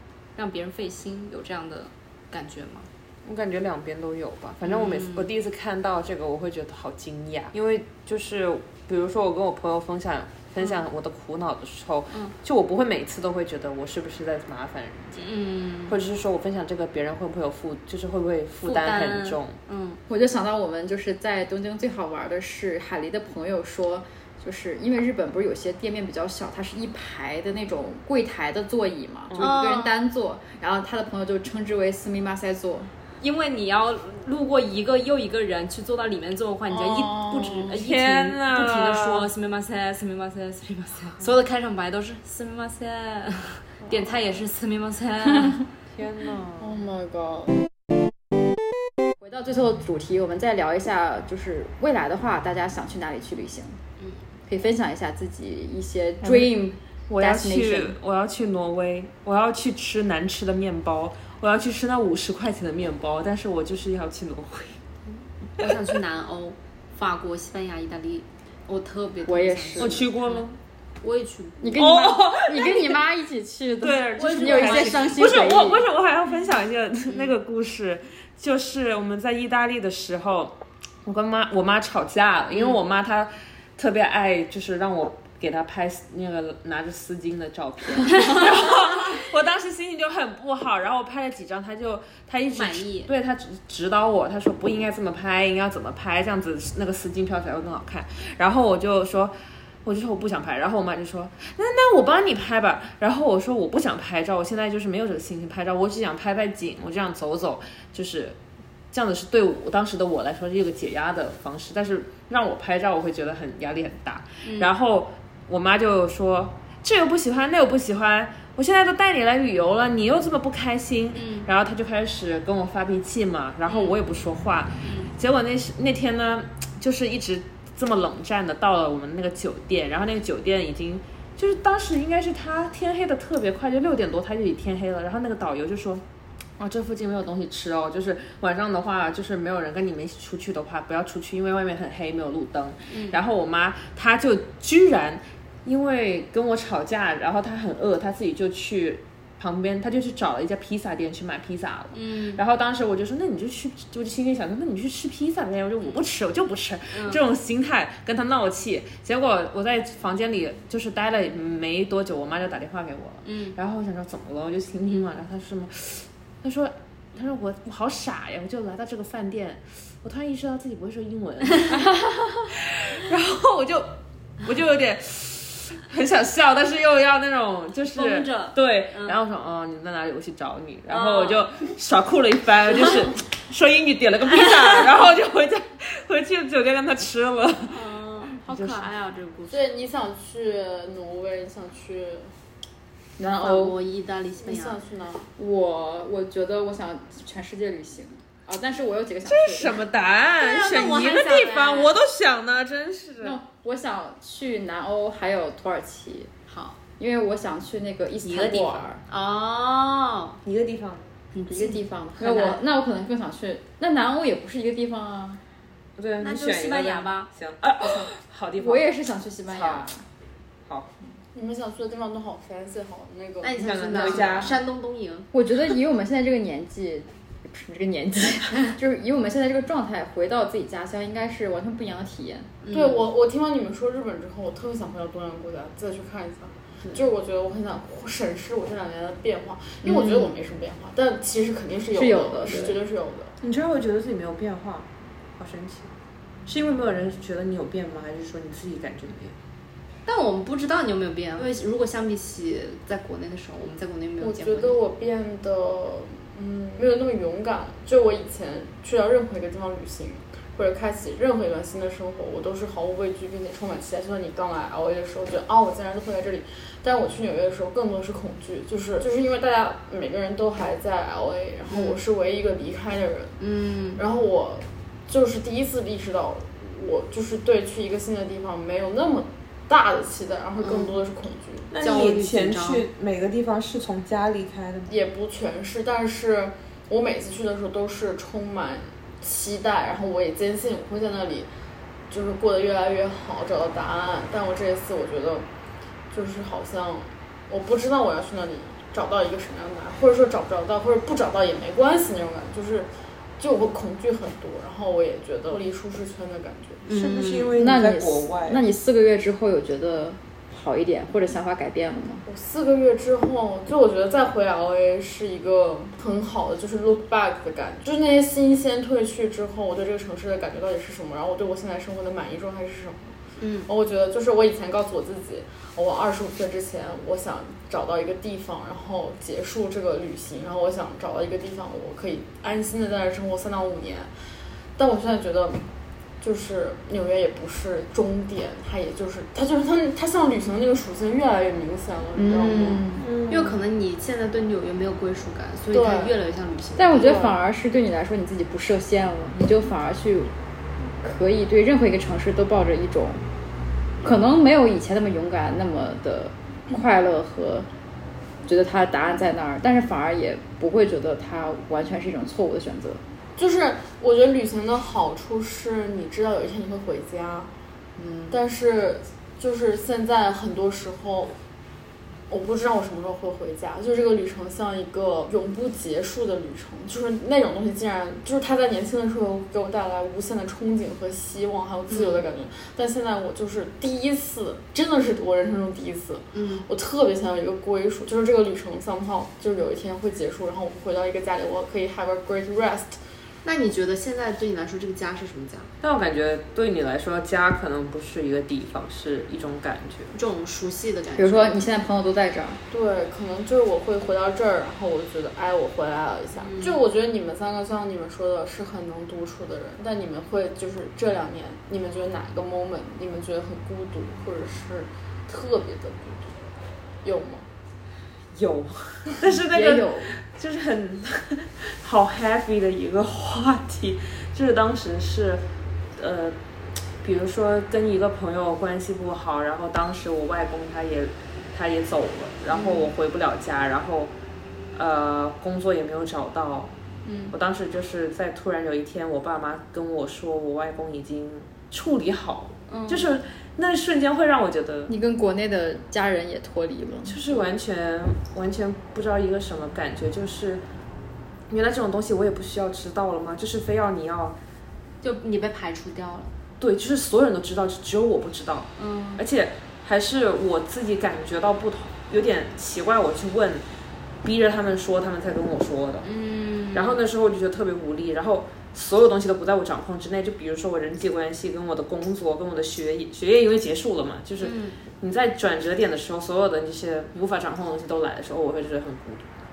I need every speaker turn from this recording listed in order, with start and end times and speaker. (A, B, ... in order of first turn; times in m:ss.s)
0:00.4-0:02.9 A
0:03.2-0:15.2 B
0:04.6-0:05.3 A
0:15.2-0:16.0 A
0:15.9-0:19.5 B
0:18.6-0:20.0 A
0:20.1-0:32.9 C
0:29.4-0:30.0 A
0:33.2-0:45.6 A
0:36.7-0:37.7 D
0:37.7-0:39.3 B
0:45.9-0:46.8 B
0:46.6-0:47.5 D
0:49.2-0:53.8 C
0:54.5-0:58.0 C
0:56.2-0:56.6 B
0:57.1-1:04.8 B
1:05.1-1:10.4 A
1:09.2-1:10.0 C
1:09.8-1:10.6 B
1:11.0-1:11.8 A
1:11.6-1:15.9 C
1:11.8-1:13.0 B
1:13.8-1:48.4 B
1:14.1-1:15.3 A
1:17.1-1:17.3 A
1:22.5-1:22.8 A
1:32.5-1:33.1 A
1:48.9-2:16.0 B
1:54.4-1:54.7 A
2:01.1-2:01.5 A
2:03.7-2:04.0 A
2:04.8-2:05.1 A
2:16.6-2:53.9 B
2:22.9-2:23.2 A
2:31.9-2:32.4 A
2:36.9-2:37.2 A
2:43.2-2:43.6 A
2:54.4-3:08.9 B
2:57.9-2:59.2 A
3:00.9-3:01.5 A
3:07.7-3:09.6 A
3:09.5-3:12.3 D
3:13.2-3:13.8 C
3:13.4-3:14.8 A
3:14.4-3:15.3 D
3:15.4-3:19.9 C
3:19.2-3:23.4 B
3:20.4-3:22.0 A
3:23.2-3:26.3 C
3:26.5-3:26.8 A
3:27.0-3:29.0 C
3:28.2-3:30.4 A
3:30.4-3:31.0 B
3:31.3-3:32.6 A
3:31.5-3:35.4 C
3:36.0-3:38.9 B
3:36.2-3:37.3 A
3:38.6-3:40.0 C
3:39.5-3:39.9 B
3:40.6-3:40.9 B
3:41.3-3:44.5 D
3:43.4-3:45.3 A
3:43.6-3:44.6 B
3:45.3-3:52.5 C
3:52.6-3:53.0 A
3:52.7-4:03.3 D
3:59.8-4:00.3 C
4:01.9-4:02.8 C
4:03.4-4:05.9 B
4:06.4-4:09.3 B
4:10.1-4:14.8 A
4:14.2-4:33.4 D
4:31.7-4:32.0 A
4:33.4-4:34.0 A
4:34.0-4:41.7 D
4:40.6-4:41.0 A
4:41.7-4:44.9 B
4:41.8-4:42.8 A
4:44.9-4:51.5 D
4:52.1-4:55.4 D
4:56.1-5:06.8 D
5:06.8-5:07.5 A
5:06.9-5:08.6 B
5:07.5-5:12.2 C
5:12.2-5:34.1 D
5:23.4-5:23.7 A
5:34.8-5:35.6 D
5:36.2-5:42.9 D
5:42.1-5:43.1 C
5:43.0-5:43.6 B
5:43.3-5:47.3 A
5:45.7-5:46.1 D
5:46.8-5:50.3 C
5:47.0-5:47.3 D
5:51.0-5:53.2 C
5:54.0-5:57.7 C
5:58.4-6:03.0 C
6:03.4-6:07.5 D
6:08.0-6:08.4 C
6:08.3-6:11.4 D
6:12.3-6:33.0 D
6:21.9-6:22.2 A
6:26.3-6:26.7 A
6:33.4-6:35.7 A
6:35.8-6:40.1 B
6:40.1-6:41.6 A
6:41.2-6:42.6 C
6:42.7-6:56.4 D
6:46.4-6:46.8 A
6:57.0-6:57.4 D
6:58.3-7:05.4 B
6:59.5-7:00.1 C
7:06.0-7:06.4 B
7:07.0-7:14.1 B
7:12.5-7:12.9 A
7:14.7-7:16.7 B
7:17.0-7:17.3 A
7:17.3-7:24.9 B
7:22.7-7:23.1 A
7:24.9-7:27.2 C
7:27.0-7:30.6 B
7:31.5-7:34.4 B
7:35.0-7:36.3 A
7:36.6-7:43.6 B
7:38.8-7:39.2 A
7:44.2-7:46.1 B
7:46.0-7:47.0 A
7:46.7-7:59.2 B
7:54.4-7:54.8 A